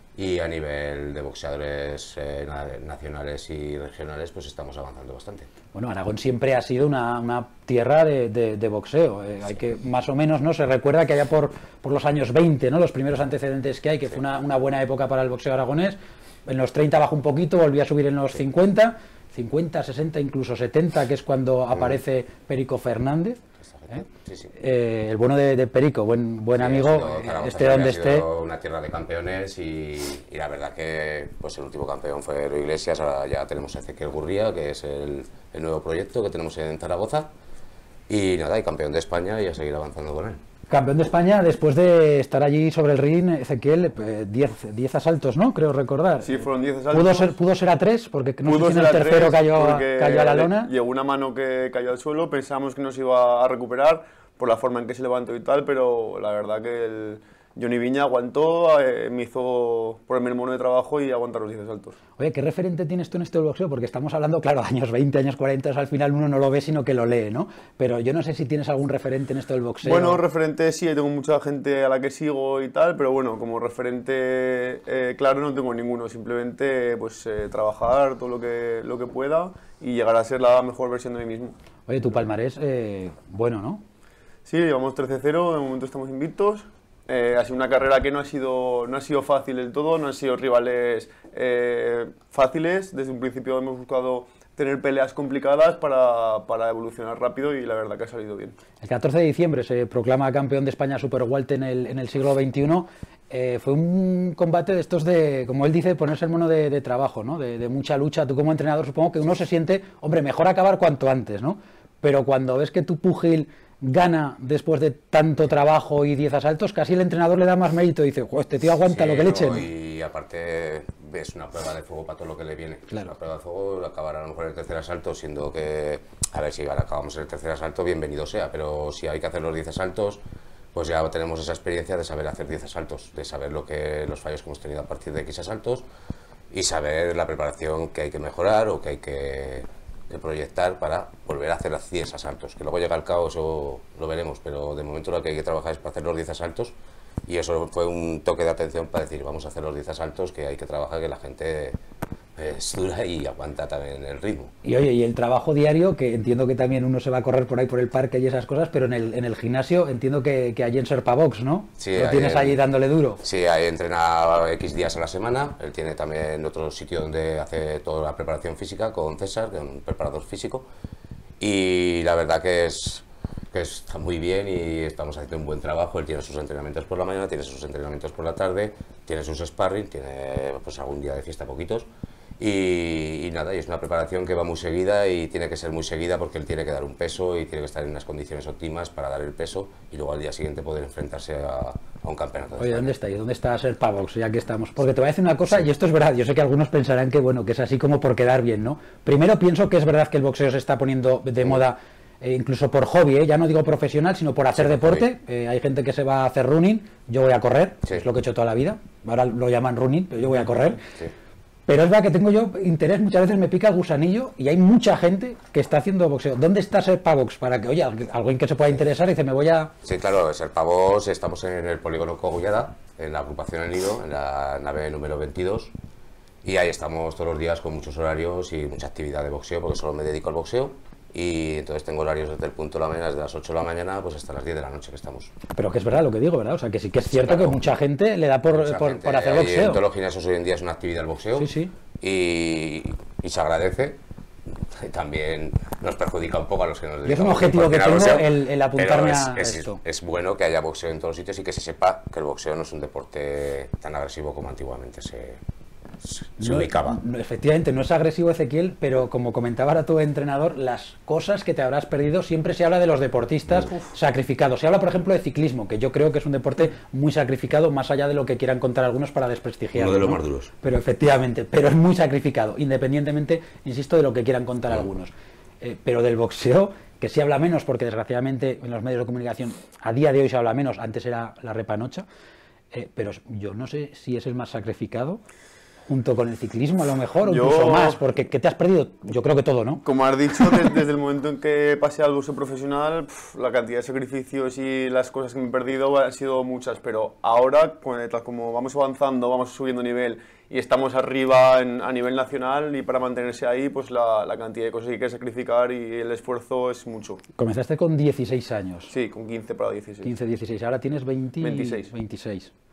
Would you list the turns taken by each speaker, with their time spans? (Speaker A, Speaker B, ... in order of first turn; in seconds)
Speaker A: 0.1-5.5, 23.7-24.5, 26.5-37.3, 38.1-40.4, 118.8-130.2, 130.7-135.8, 136.5-146.7, 147.2-151.8, 152.3-154.5, 161.8-162.6, 163.2-170.7, 171.4-181.9, 182.4-192.9, 204.6-205.0, 219.8-225.7, 226.4-235.3, 237.1-237.6, 238.5-244.0, 244.6-255.4, 256.0-257.0, 269.7-270.5
Speaker B: 5.7-23.4, 24.6-28.3, 40.7-50.7, 62.2-70.2, 81.9-83.8, 98.8-119.7, 154.6-163.2, 192.6-210.8, 211.7-219.7, 235.5-239.8, 241.4-241.7, 247.0-249.8, 256.4-282.1, 282.7-285.2, 285.9-289.8, 307.4-308.9, 310.0-312.5
Speaker C: 46.2-47.3, 48.5-62.0, 69.8-81.5, 84.5-98.5, 287.2-288.0, 289.8-307.2, 308.9-310.1, 311.4-311.9